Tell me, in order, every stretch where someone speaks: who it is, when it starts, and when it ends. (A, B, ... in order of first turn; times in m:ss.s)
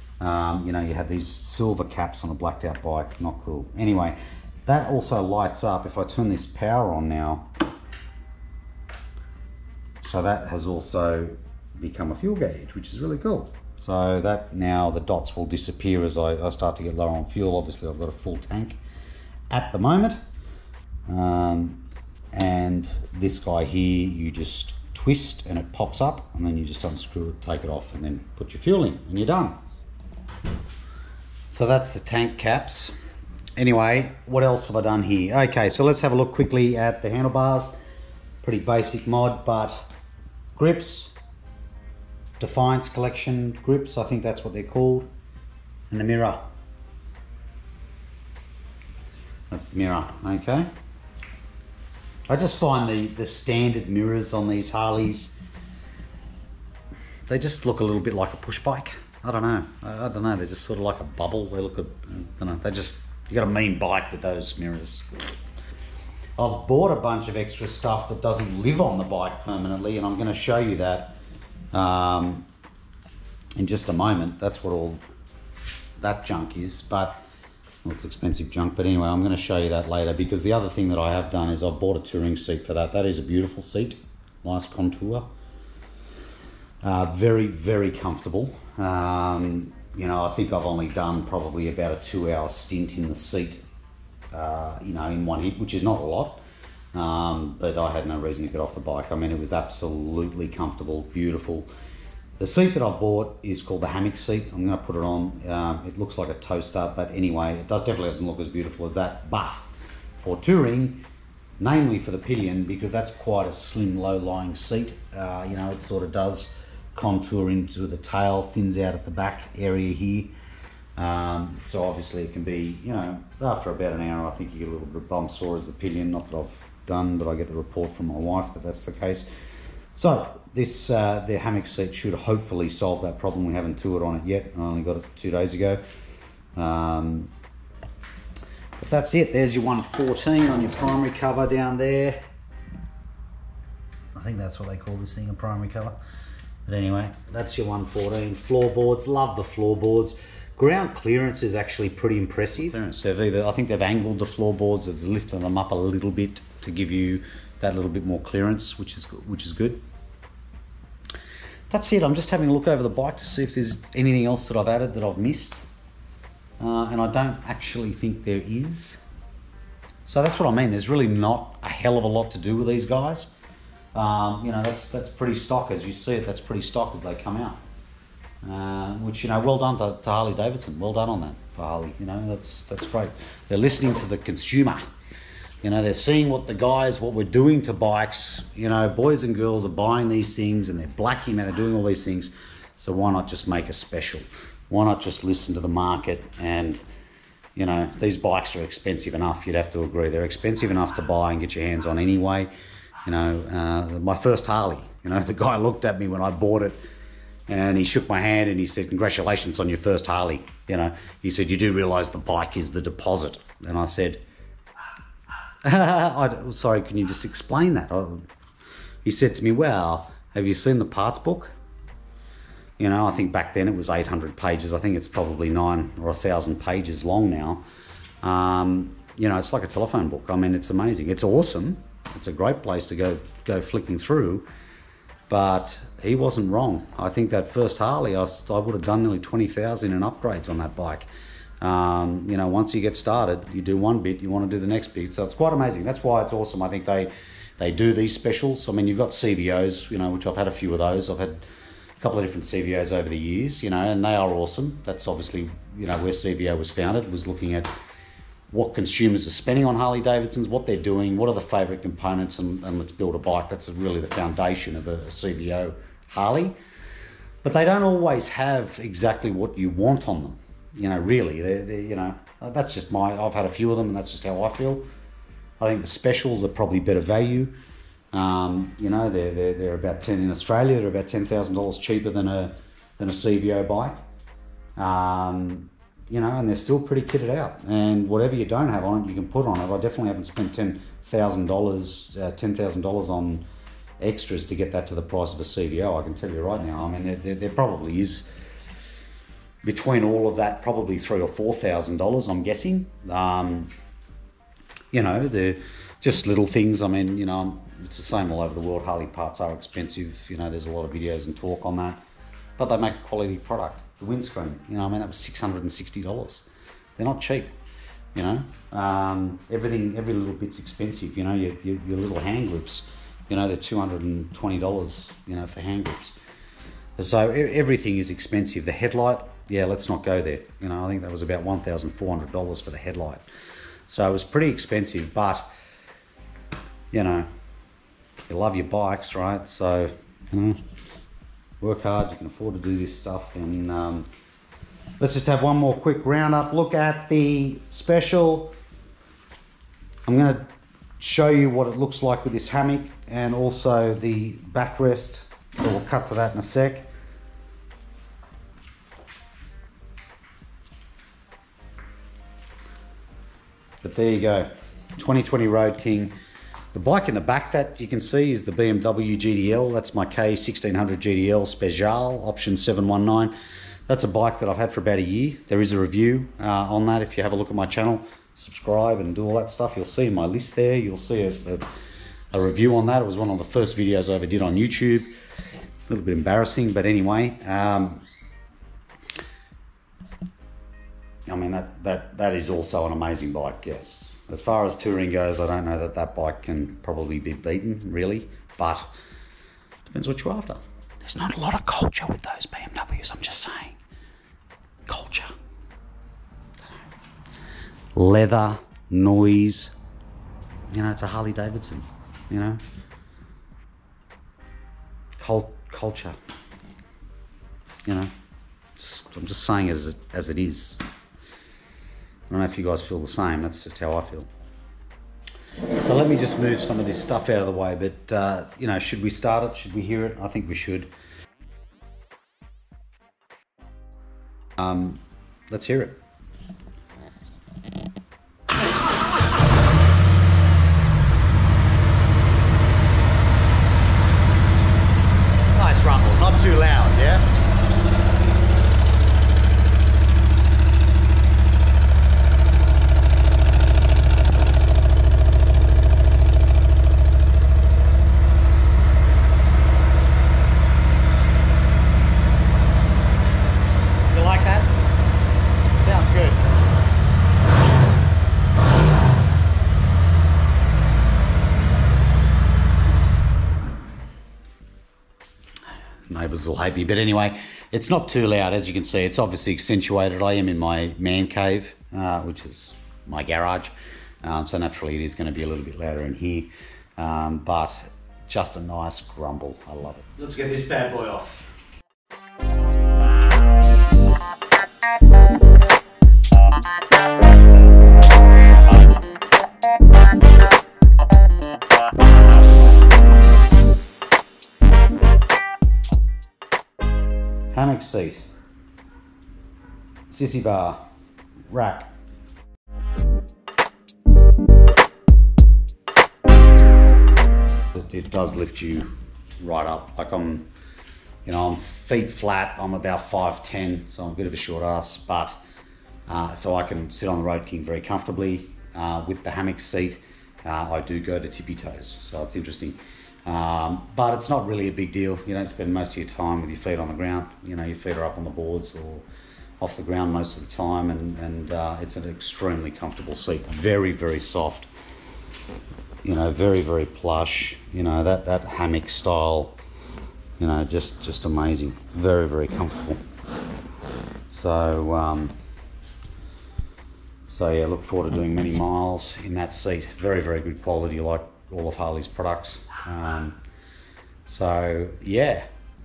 0:00.2-0:07.5 A
0:10.0-0:18.8 A
0:19.5-0:20.2 A
0:21.1-0:21.8 A
0:22.3-0:29.6 A
0:31.5-0:32.9 A
0:33.6-0:37.7 A
0:38.4-0:39.8 A
0:40.6-0:41.1 A
0:42.4-0:45.1 A
0:45.9-0:46.4 A
0:49.5-0:50.7 A
0:52.3-0:55.4 A
0:57.3-1:05.0 A
1:06.4-1:11.1 A
1:11.7-1:12.4 A
1:13.6-1:15.0 A
1:16.0-1:17.2 A
1:17.8-1:25.3 A
1:26.8-1:33.6 A
1:34.3-1:36.4 A
1:36.9-1:41.7 A
1:42.4-1:49.6 A
1:50.2-1:51.0 A
1:51.6-2:00.3 A
2:01.0-2:09.3 A
2:09.9-2:15.8 A
2:16.6-2:17.3 A
2:18.8-2:22.2 A
2:24.1-2:26.0 A
2:26.7-2:39.8 A
2:41.7-2:45.6 A
2:46.6-2:49.0 A
2:50.0-2:53.3 A
2:53.9-2:57.6 A
2:58.4-3:04.8 A
3:05.6-3:16.8 A
3:17.6-3:22.5 A
3:23.0-3:26.8 A
3:27.5-3:34.2 A
3:35.6-3:38.2 A
3:39.0-3:41.5 A
3:42.8-3:47.6 A
3:48.2-3:54.4 A
3:55.3-4:01.1 A
4:01.6-4:11.4 A
4:12.0-4:17.7 A
4:18.5-4:26.6 A
4:27.4-4:34.8 A
4:35.6-4:37.5 A
4:38.1-4:44.0 A
4:44.8-4:53.4 A
4:54.0-4:58.2 A
4:59.6-5:03.7 A
5:04.9-5:12.0 A
5:12.6-5:16.4 A
5:17.0-5:17.5 A
5:18.1-5:26.2 A
5:27.0-5:33.2 A
5:33.9-5:35.5 A
5:36.9-5:37.3 A
5:38.3-5:40.6 A
5:41.6-5:44.1 A
5:45.0-5:48.5 A
5:50.0-5:50.5 A
5:51.0-5:56.9 A
6:03.8-6:06.1 A
6:06.7-6:13.3 A
6:13.9-6:21.6 A
6:22.3-6:25.1 A
6:25.9-6:28.0 A
6:31.3-6:38.9 A
6:39.9-6:43.8 A
6:44.9-6:45.3 A
6:47.9-6:49.7 A
6:50.7-6:52.6 A
6:55.2-6:56.2 A
6:57.8-6:58.1 A
6:58.8-7:00.8 A
7:02.3-7:04.3 A
7:05.8-7:10.9 A
7:14.6-7:16.0 A
7:25.6-7:27.2 A
7:44.1-7:44.7 A
7:45.8-7:46.4 A
7:56.1-8:11.5 A
8:27.5-8:28.2 A
8:30.1-8:30.8 A
8:31.5-8:31.9 A
8:37.7-8:38.9 A
8:39.4-8:40.4 A
8:41.2-8:45.4 A
8:46.1-8:59.0 A
8:59.6-9:04.7 A
9:06.0-9:09.6 A
9:10.4-9:13.0 A
9:14.3-9:15.3 A
9:17.3-9:23.4 A
9:24.2-9:25.5 A